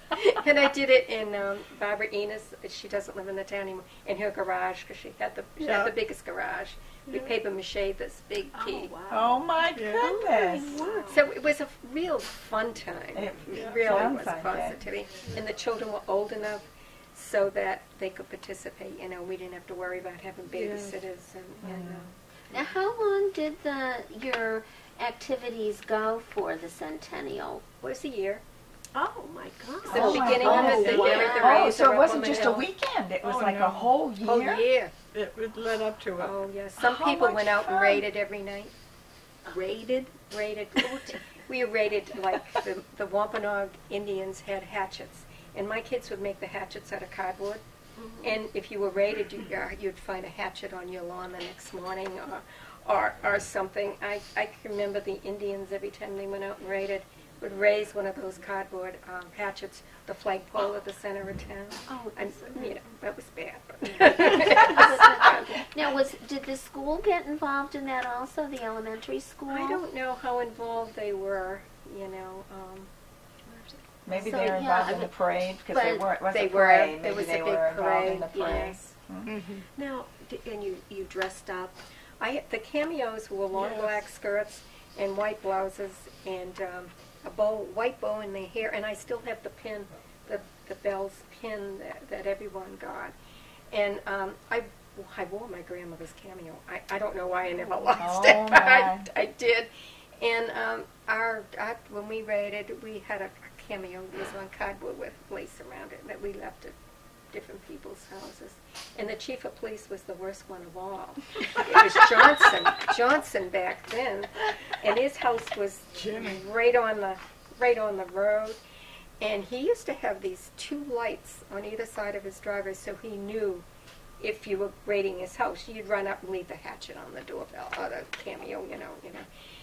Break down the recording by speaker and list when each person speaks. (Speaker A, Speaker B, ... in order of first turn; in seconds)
Speaker A: 0.1-8.9, 11.0-22.1, 27.8-28.4, 29.9-32.7, 34.2-34.9, 36.2-38.7, 40.3-47.6, 48.2-65.6, 69.5-72.9, 76.3-78.9, 82.2-93.1, 93.7-106.8, 107.3-118.6, 119.2-123.7, 124.2-129.3
Speaker B: 5.6-5.9, 9.7-10.2, 13.5-14.1, 20.6-20.9, 33.2-33.9, 35.1-36.3, 79.2-79.7, 83.5-84.0, 116.0-116.4
Speaker C: 8.5-11.3, 28.9-31.5, 39.5-40.3, 48.0-48.4, 61.9-62.8, 79.8-81.8
Speaker D: 9.1-10.9, 13.2-14.8, 21.6-22.1, 29.9-34.6, 36.8-37.6, 74.1-79.3, 98.0-99.1
Speaker E: 22.5-27.6, 29.9-31.7, 64.2-69.8, 74.2-76.1, 78.3-78.8